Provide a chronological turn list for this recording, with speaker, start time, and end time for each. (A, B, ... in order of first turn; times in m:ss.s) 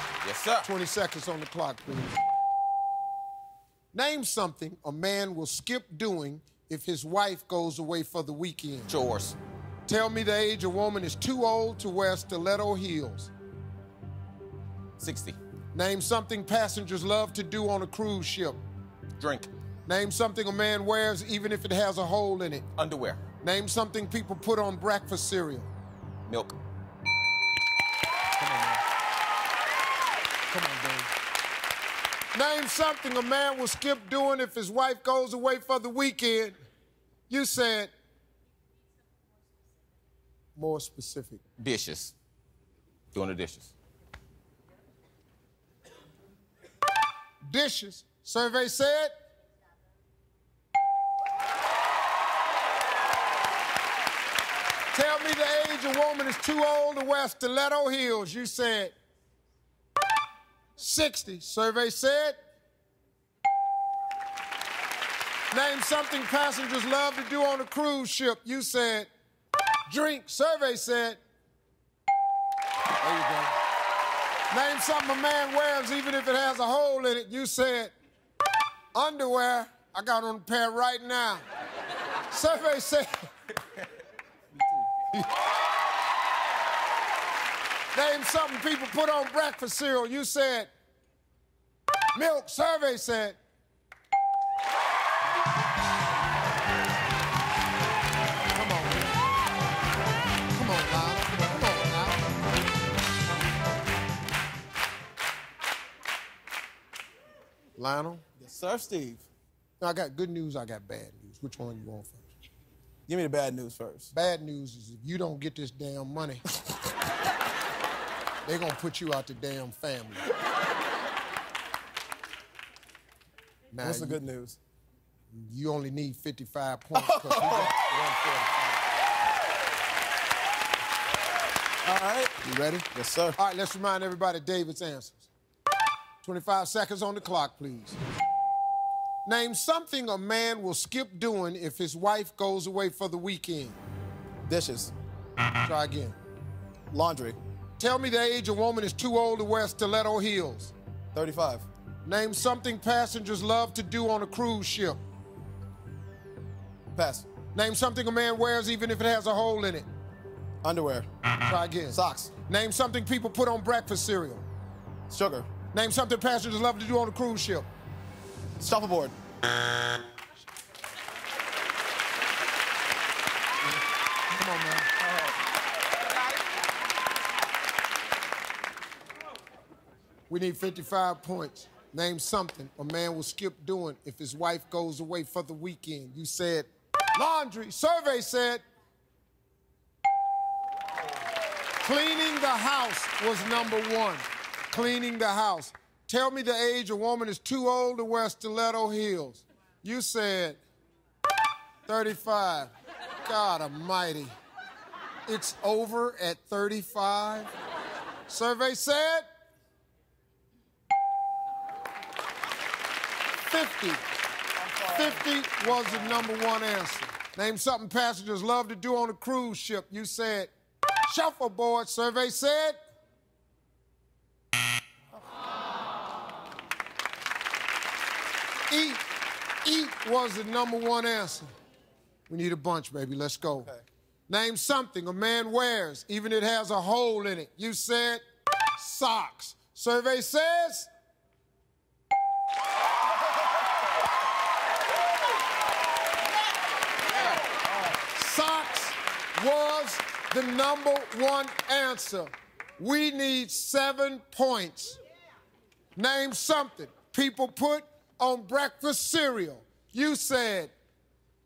0:00.2-0:00.7 A
0:00.6-0:02.2 B
0:03.9-0:08.9 B
0:08.9-0:09.4 A
0:09.9-0:13.3 B
0:15.0-0:15.4 A
0:15.7-0:18.6 B
0:19.2-0:19.5 A
0:19.9-0:22.7 B
0:22.8-0:23.2 A
0:23.4-0:25.7 B
0:26.3-0:26.6 A
0:28.4-0:28.8 B
0:30.5-0:31.1 B
0:32.3-0:36.6 B
0:37.3-0:37.9 B
0:40.6-0:41.4 B
0:41.6-0:42.1 A
0:43.1-0:43.7 A
0:47.4-0:49.1 B
0:54.9-0:58.9 B
1:00.8-1:02.4 B
1:05.5-1:09.1 B
1:09.9-1:11.2 B
1:13.0-1:13.5 B
1:14.5-1:17.9 B
1:18.9-1:21.4 B
1:22.3-1:23.3 B
1:27.9-1:30.7 B
1:32.1-1:33.4 B
1:38.5-1:39.1 B
1:40.5-1:42.2 B
1:47.8-1:48.2 B
1:48.4-1:49.3 C
1:49.8-1:52.2 B
1:53.1-1:54.1 C
1:54.1-1:56.4 B
1:58.4-2:00.2 B
2:03.7-2:04.2 B
2:03.8-2:04.6 C
2:05.3-2:08.6 B
2:07.0-2:07.8 C
2:11.8-2:13.4 C
2:12.4-2:15.3 B
2:16.2-2:18.0 B
2:19.2-2:23.8 B
2:24.5-2:24.9 C
2:25.6-2:26.2 B
2:26.9-2:27.4 C
2:27.8-2:30.7 B
2:31.1-2:31.7 C
2:32.0-2:35.0 B
2:36.9-2:37.3 C
2:37.5-2:39.9 B
2:40.6-2:41.1 C
2:41.4-2:44.4 B
2:41.9-2:42.3 C
2:45.1-2:45.5 C
2:45.7-2:47.7 B
2:48.6-2:49.2 C
2:54.3-2:54.9 B
3:00.3-3:08.6 B
3:11.8-3:20.6 B
3:21.9-3:22.7 B
3:23.2-3:24.4 B
3:25.3-3:27.5 B
3:28.3-3:29.3 B
3:33.5-3:34.0 B
3:34.6-3:36.3 C
3:34.9-3:40.5 B
3:41.1-3:42.8 B
3:48.7-3:49.0 B
3:49.6-3:51.5 B
3:52.3-3:53.7 B
3:53.6-3:53.9 C
3:54.3-3:58.2 B
3:58.8-4:00.9 B
4:08.1-4:15.0 B
4:16.0-4:20.7 B